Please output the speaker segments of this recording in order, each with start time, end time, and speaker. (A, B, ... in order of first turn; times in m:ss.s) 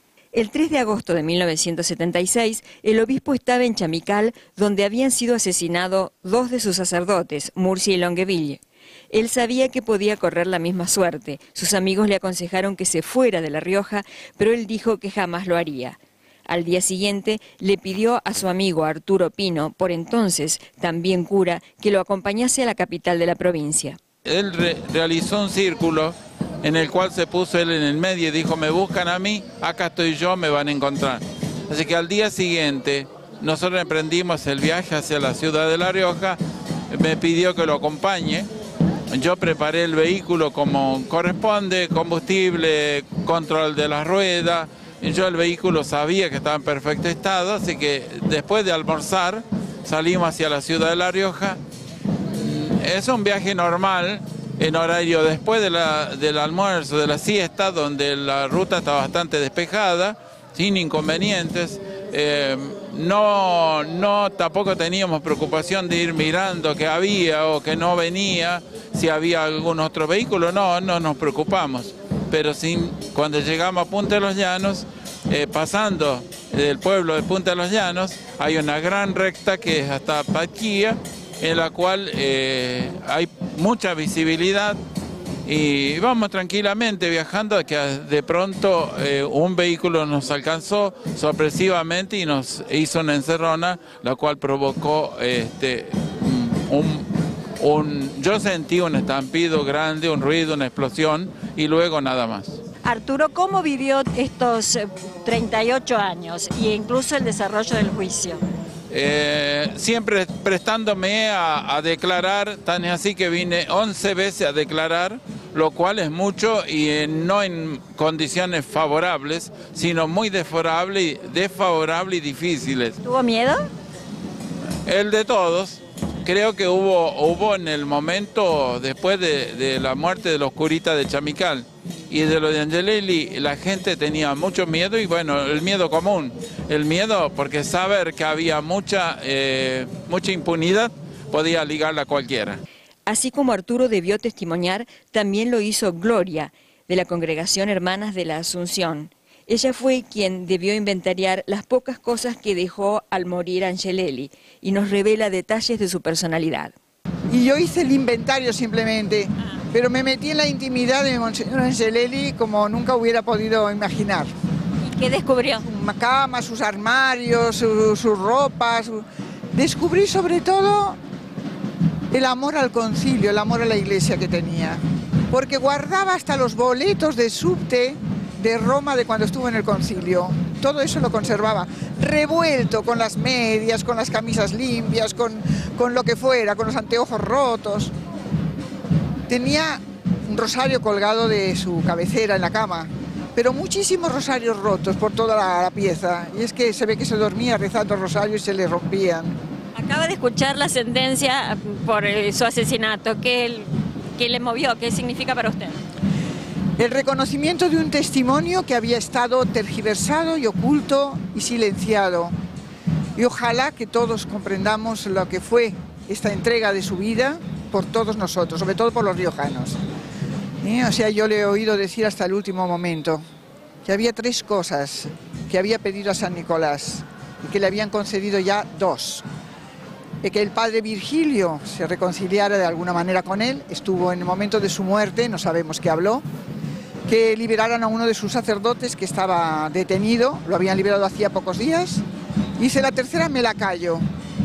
0:00.3-0:08.6 A
0:09.1-0:24.0 A
0:24.2-0:36.4 B
0:36.9-0:38.5 B
0:39.1-0:51.6 B
0:52.3-1:24.8 B
1:25.4-1:42.6 B
1:42.8-1:48.4 A
1:48.9-2:03.0 B
2:03.0-2:03.6 A
2:04.8-2:22.6 B
2:23.1-2:36.7 A
2:37.3-2:44.3 C
2:44.8-2:45.6 A
2:45.6-2:51.0 C
2:52.1-2:54.8 C
2:55.3-3:07.9 C
3:09.3-3:19.4 C
3:19.8-3:25.8 A
3:26.8-3:32.3 C
3:33.2-3:39.8 C
3:40.6-3:43.2 C
3:43.8-3:49.2 C
3:50.2-3:56.2 C
3:57.1-4:02.0 C
4:02.6-4:04.0 C